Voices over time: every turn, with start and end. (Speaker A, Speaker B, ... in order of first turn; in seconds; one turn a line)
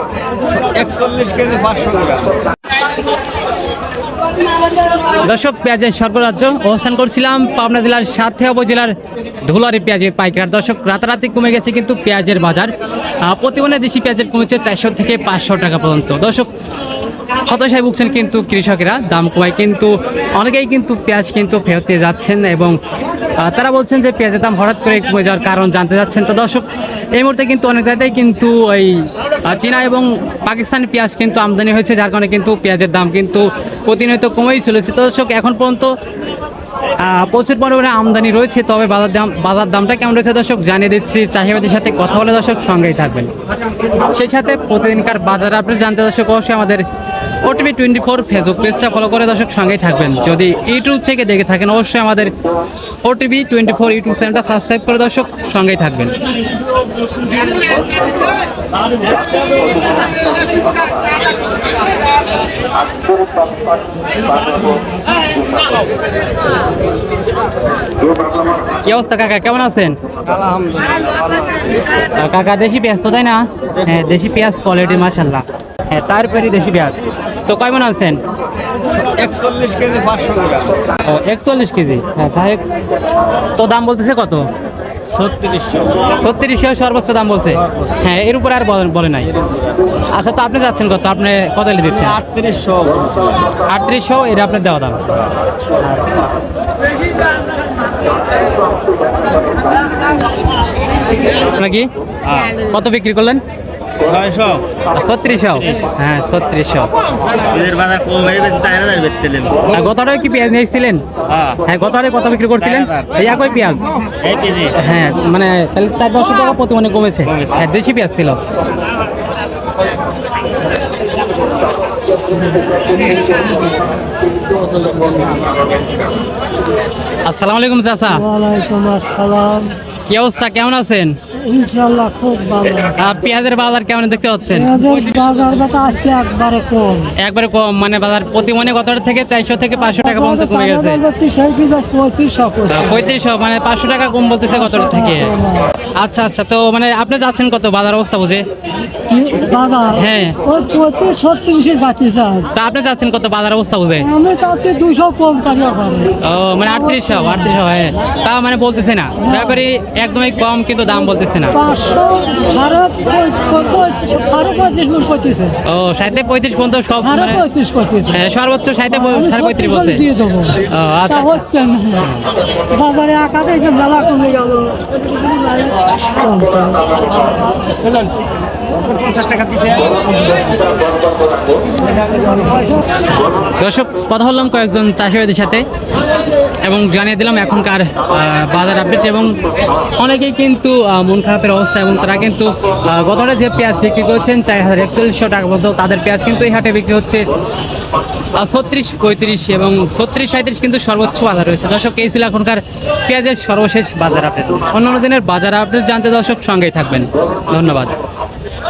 Speaker A: 0.5-2.4
Speaker B: 5.2-8.9
Speaker B: 9.4-12.7
Speaker B: 13.2-16.5
Speaker B: 17.4-22.8
Speaker B: 23.4-35.9
Speaker B: 37.0-43.3
Speaker B: 44.1-46.8
Speaker B: 47.4-52.3
Speaker B: 53.0-56.1
Speaker B: 68.8-70.0
Speaker A: 70.2-71.7
Speaker B: 72.1-78.2
Speaker A: 78.9-80.8
Speaker B: 81.0-82.6
Speaker B: 83.6-84.5
Speaker A: 85.1-86.1
Speaker B: 86.2-89.3
Speaker A: 87.6-88.0
Speaker A: 89.4-89.7
Speaker B: 90.1-92.2
Speaker A: 91.9-93.5
Speaker B: 93.7-95.0
Speaker B: 95.8-96.3
Speaker B: 101.3-101.9
Speaker B: 102.5-103.4
Speaker A: 104.0-104.7
Speaker B: 104.9-106.9
Speaker A: 107.5-109.7
Speaker B: 109.7-113.9
Speaker A: 112.6-113.3
Speaker A: 114.0-114.8
Speaker B: 114.7-118.4
Speaker B: 127.2-128.2
Speaker C: 128.1-129.8
Speaker B: 130.1-131.2
Speaker C: 131.3-133.0
Speaker B: 133.0-135.4
Speaker C: 134.5-137.1
Speaker B: 137.2-141.0
Speaker C: 139.8-143.0
Speaker B: 142.7-145.3
Speaker C: 144.5-145.7
Speaker B: 146.0-148.4
Speaker C: 149.1-152.5
Speaker B: 149.9-150.4
Speaker B: 152.5-154.1
Speaker C: 154.0-157.6
Speaker B: 156.2-161.6
Speaker C: 159.2-159.6
Speaker C: 161.5-165.6
Speaker B: 165.7-167.4
Speaker C: 167.0-168.3
Speaker B: 168.1-170.1
Speaker C: 168.9-175.0
Speaker B: 170.7-171.4
Speaker B: 172.0-172.3
Speaker C: 175.5-177.0
Speaker A: 178.9-180.0
Speaker C: 182.1-182.7
Speaker B: 183.6-185.6
Speaker B: 186.6-189.4
Speaker B: 190.0-197.2
Speaker B: 198.4-207.9